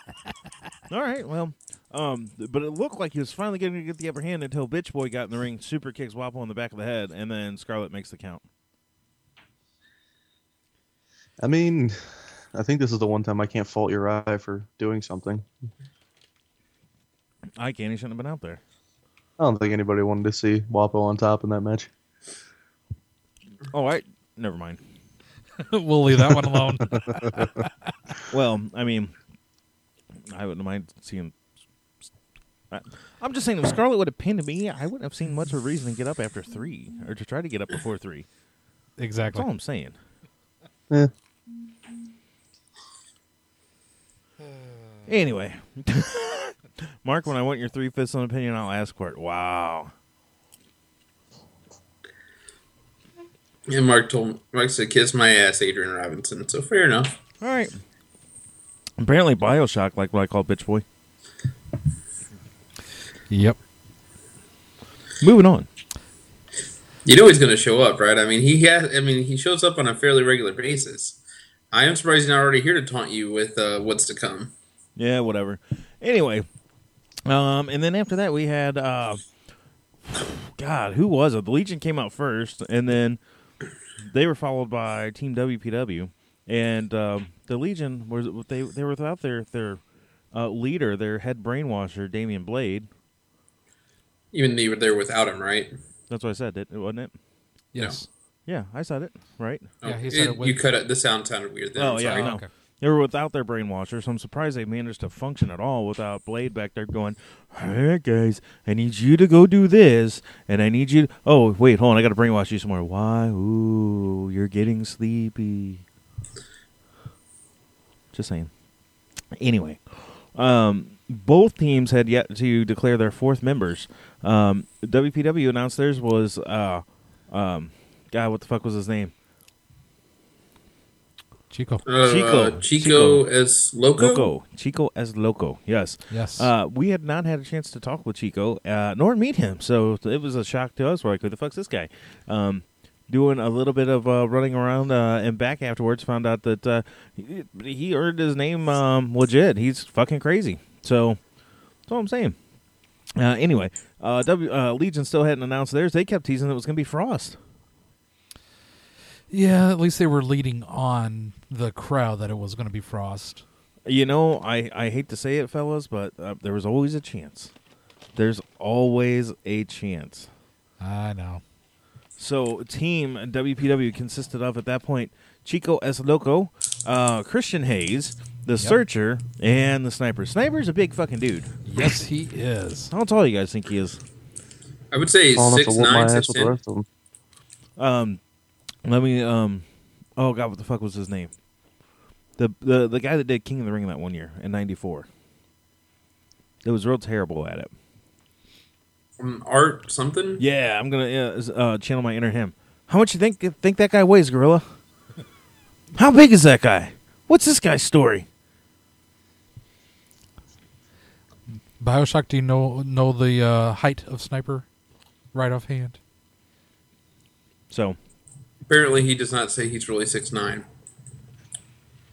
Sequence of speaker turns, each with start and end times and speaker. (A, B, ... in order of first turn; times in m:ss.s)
0:00.9-0:08.4 A
0:11.4-0:12.0 B
0:12.5-0:15.4 B
0:17.6-0:18.6 A
0:19.4-0:21.9 B
0:23.7-0:24.8 A
0:25.7-0:27.6 C
0:28.3-0:29.1 A
0:30.3-0:31.3 A
0:32.7-0:38.2 A
0:39.0-0:39.4 C
0:39.3-0:39.9 A
0:45.1-0:49.9 A
0:53.7-0:57.1 D
0:57.4-0:57.7 A
0:59.0-1:00.8 A
1:03.3-1:03.6 C
1:05.2-1:05.7 A
1:07.0-1:11.2 D
1:11.7-1:14.5 D
1:15.0-1:16.4 A
1:17.2-1:19.2 A
1:20.0-1:23.2 A
1:24.0-1:29.8 A
1:30.3-1:32.9 A
1:34.3-1:35.7 D
1:36.1-1:37.1 A
1:37.7-1:38.0 C
1:38.5-1:39.7 A
1:39.8-1:42.3 D
1:39.8-1:40.6 C
1:41.8-1:55.8 A
1:42.1-1:42.5 C
1:58.1-1:58.5 A
1:59.4-2:09.1 A
2:11.5-2:11.8 C
2:11.8-2:14.3 D
2:12.0-2:13.2 A
2:13.9-2:31.2 A
2:16.1-2:16.5 C
2:31.9-2:32.4 A
2:33.2-2:37.4 A
2:39.3-2:43.4 C
2:43.8-2:47.5 A
2:48.1-2:50.3 A
2:50.8-2:51.4 C
2:52.2-3:01.5 A
3:01.6-3:02.9 C
3:02.9-3:04.0 A
3:04.9-3:06.5 D
3:05.3-3:06.8 B
3:07.8-3:08.2 A
3:08.8-3:09.6 A
3:10.2-3:11.3 A
3:12.4-3:15.1 A
3:16.6-3:17.7 A
3:19.2-3:20.4 D
3:20.4-3:24.6 A
3:26.0-3:28.2 A
3:31.8-3:34.6 C
3:35.3-3:36.0 C
3:37.7-3:38.0 A
3:38.7-3:40.6 D